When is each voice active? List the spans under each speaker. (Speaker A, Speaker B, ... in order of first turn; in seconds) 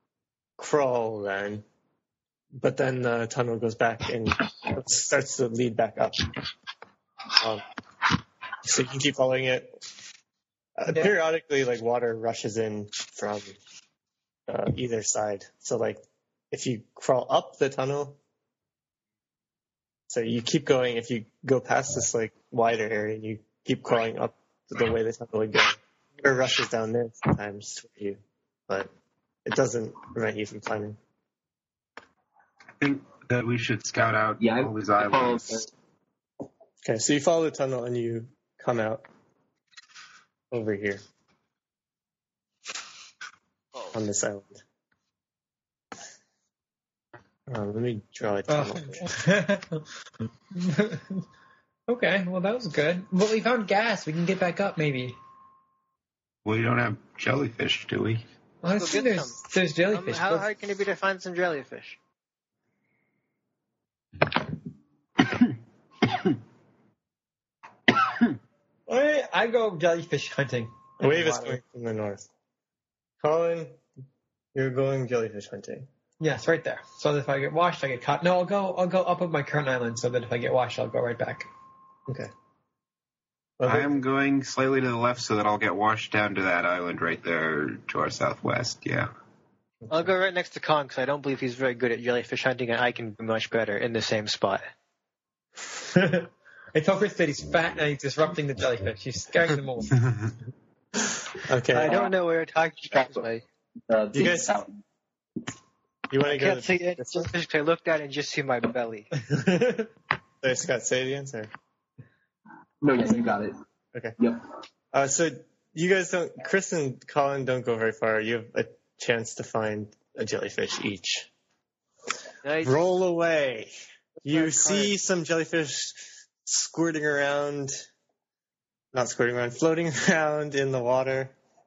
Speaker A: 0.6-1.6, 2.6-6.3, 7.4-7.6, 8.6-9.8, 10.8-13.6, 14.5-18.2, 20.1-28.9, 29.4-31.0, 36.8-39.1, 40.5-41.0, 43.9-44.6, 47.5-49.1, 71.0-72.2, 73.2-73.8, 74.5-75.9, 82.1-82.3, 83.6-83.9, 89.8-90.1, 101.4-102.0, 104.1-104.6, 106.1-107.3, 110.4-111.5, 114.9-121.3, 122.6-123.7, 124.2-127.8, 128.9-131.3
Speaker B: 32.8-35.7, 56.5-58.3, 83.7-89.1
Speaker C: 34.4-35.7, 101.8-102.1, 102.9-103.2, 103.9-104.8, 112.8-113.5
Speaker D: 48.5-49.9, 50.5-51.2, 51.9-55.2, 58.6-60.5, 68.9-71.6, 76.2-81.5, 95.9-100.0, 109.3-109.9
Speaker E: 58.6-59.4, 59.9-62.0, 89.9-94.7, 101.7-103.5, 106.2-109.1, 122.4-122.8, 124.2-124.9